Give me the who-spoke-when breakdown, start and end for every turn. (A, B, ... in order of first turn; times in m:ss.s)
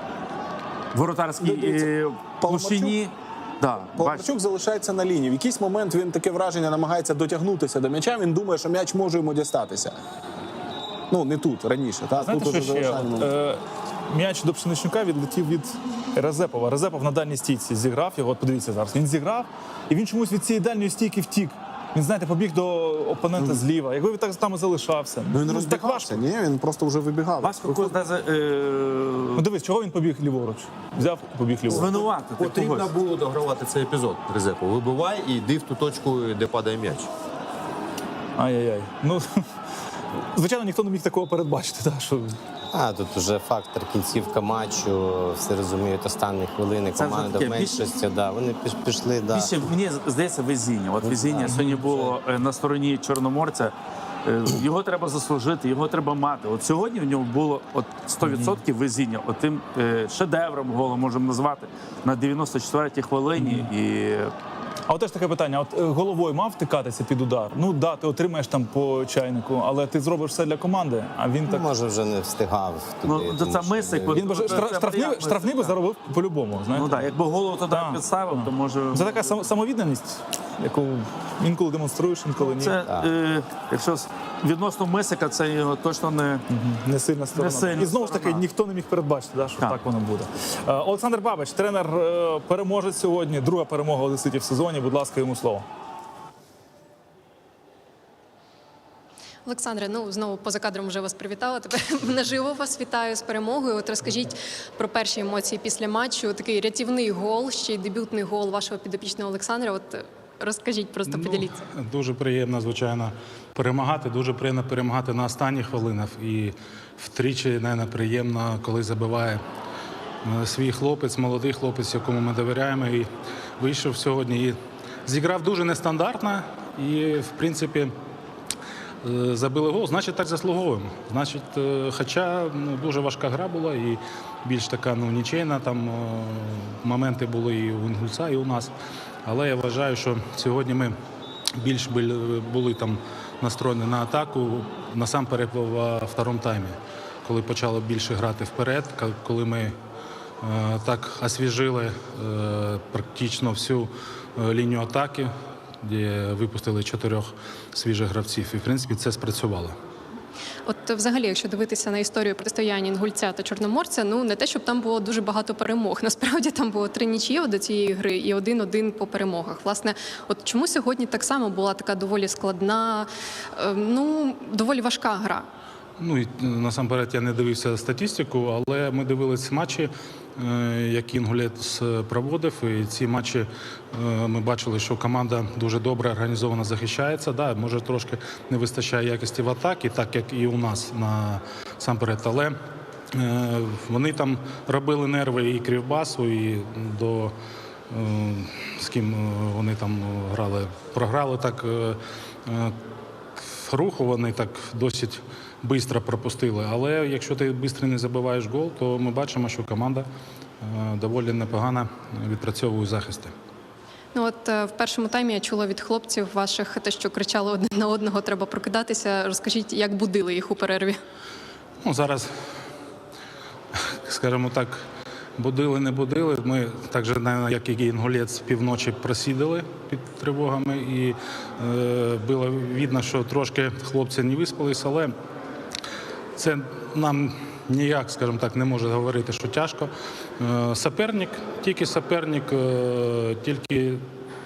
0:00.9-0:04.3 A
0:01.4-0:03.0 B
0:04.0-0:10.0 B
0:11.1-0:13.3 B
0:12.2-0:26.2 C
0:25.3-0:27.9 B
0:27.4-0:29.4 A
0:29.4-0:31.9 C
0:31.7-0:32.9 A
0:31.7-0:37.1 D
0:38.4-0:39.3 C
0:40.1-0:42.4 C
0:42.7-0:49.7 E
0:47.0-0:47.9 A
0:49.3-0:53.7 A
0:51.0-0:52.2 E
0:51.4-0:51.7 C
0:54.2-1:04.3 A
0:58.2-0:58.6 C
1:03.4-1:03.7 C
1:04.9-1:11.7 C
1:11.5-1:14.5 E
1:13.0-1:15.7 A
1:14.2-1:16.9 C
1:16.7-1:19.4 A
1:17.7-1:22.8 C
1:22.4-1:26.4 A
1:22.9-1:23.1 E
1:26.5-1:35.6 C
1:27.3-1:28.4 A
1:39.4-1:51.6 F
1:51.0-1:59.4 G
2:00.2-2:07.9 G
2:09.0-2:18.7 G
2:19.2-2:21.0 G
2:21.6-2:29.8 G
2:30.4-2:35.3 G
2:35.8-2:39.8 G
2:40.6-2:55.5 F
2:56.0-3:12.6 G
3:13.1-3:17.3 G
3:17.9-3:22.8 G
3:23.5-3:30.1 G
3:30.6-3:33.3 G
3:34.1-3:41.0 F
3:41.8-3:42.3 G
3:43.7-3:44.8 G
3:45.4-3:55.1 G
3:56.4-4:04.0 G